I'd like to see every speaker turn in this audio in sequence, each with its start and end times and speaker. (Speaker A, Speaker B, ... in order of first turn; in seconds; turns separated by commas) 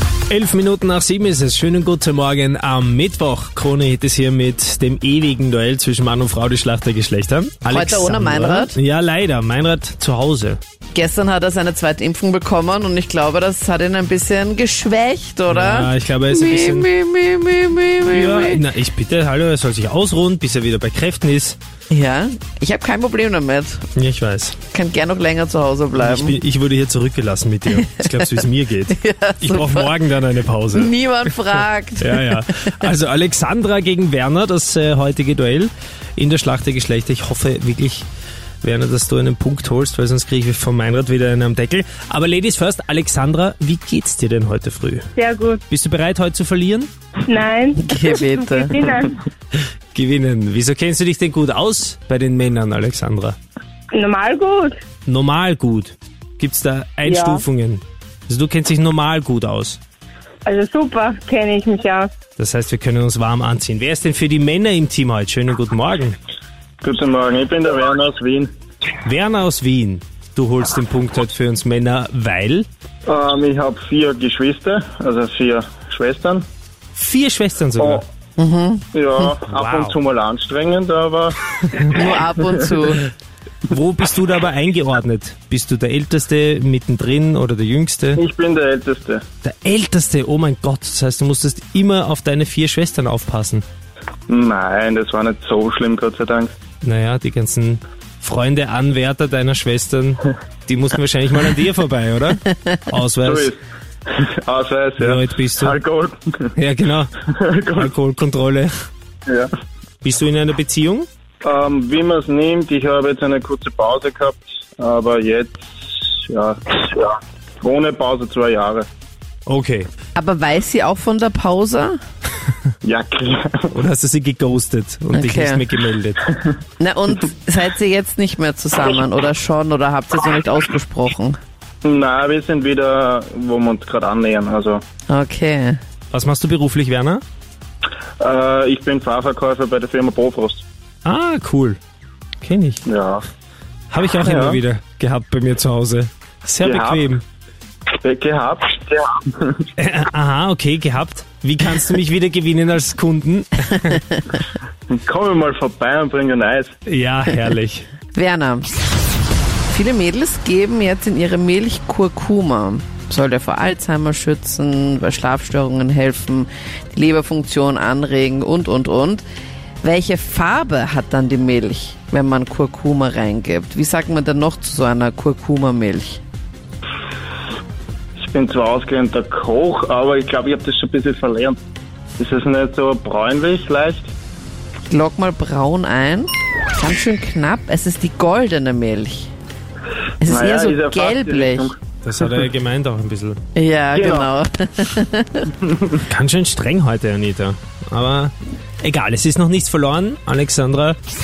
Speaker A: 0.3-10.6, Speaker B: 7.7-8.8, Speaker B: 10.9-18.6, Speaker A: 15.5-16.9, Speaker A: 18.1-21.6, Speaker B: 21.9-23.9, Speaker A: 24.0-24.6, Speaker B: 24.7-26.4, Speaker A: 26.0-31.4, Speaker B: 28.0-28.3, Speaker B: 28.9-29.9, Speaker B: 30.7-32.8, Speaker A: 32.0-38.1, Speaker A: 38.6-45.1, Speaker C: 45.1-45.6, Speaker A: 45.7-46.9, Speaker C: 47.2-49.2, Speaker B: 47.8-48.9, Speaker A: 49.9-53.4, Speaker C: 53.9-54.8, Speaker A: 55.1-59.8, Speaker C: 57.0-57.4, Speaker C: 60.5-62.1, Speaker A: 62.4-66.2, Speaker D: 66.8-68.5, Speaker A: 69.0-72.7, Speaker D: 73.1-76.5, Speaker A: 76.9-78.0, Speaker D: 77.8-78.0, Speaker B: 78.4-79.3, Speaker D: 78.9-82.0, Speaker A: 79.5-80.0, Speaker B: 81.9-83.1, Speaker A: 83.7-88.2, Speaker D: 88.2-89.2, Speaker A: 89.4-93.7, Speaker D: 94.3-96.5, Speaker A: 96.8-103.5, Speaker D: 103.2-106.5, Speaker A: 105.0-105.8, Speaker A: 106.6-107.1, Speaker D: 107.3-107.9, Speaker A: 107.7-108.7, Speaker A: 110.0-111.1, Speaker D: 111.4-118.9, Speaker A: 119.5-119.9, Speaker B: 120.2-122.0, Speaker D: 122.8-123.8, Speaker A: 123.7-126.3, Speaker B: 125.1-125.7, Speaker B: 126.8-131.4, Speaker D: 131.8-134.8, Speaker B: 135.1-135.8, Speaker A: 136.1-137.2, Speaker D: 138.2-140.6, Speaker A: 141.1-141.8, Speaker A: 142.4-142.8, Speaker D: 142.9-143.3, Speaker A: 143.9-147.2, Speaker D: 144.2-144.6, Speaker D: 146.6-147.1, Speaker D: 147.9-149.7, Speaker A: 149.8-154.0, Speaker D: 154.9-156.7, Speaker A: 156.9-157.9, Speaker B: 158.1-158.8, Speaker B: 159.7-169.2, Speaker B: 169.8-176.2, Speaker D: 178.2-181.6, Speaker D: 182.2-184.1, Speaker B: 184.9-189.3, Speaker B: 190.2-191.7, Speaker D: 190.3-192.5, Speaker A: 192.0-193.4, Speaker B: 193.6-195.5, Speaker D: 193.9-194.3, Speaker A: 196.0-201.0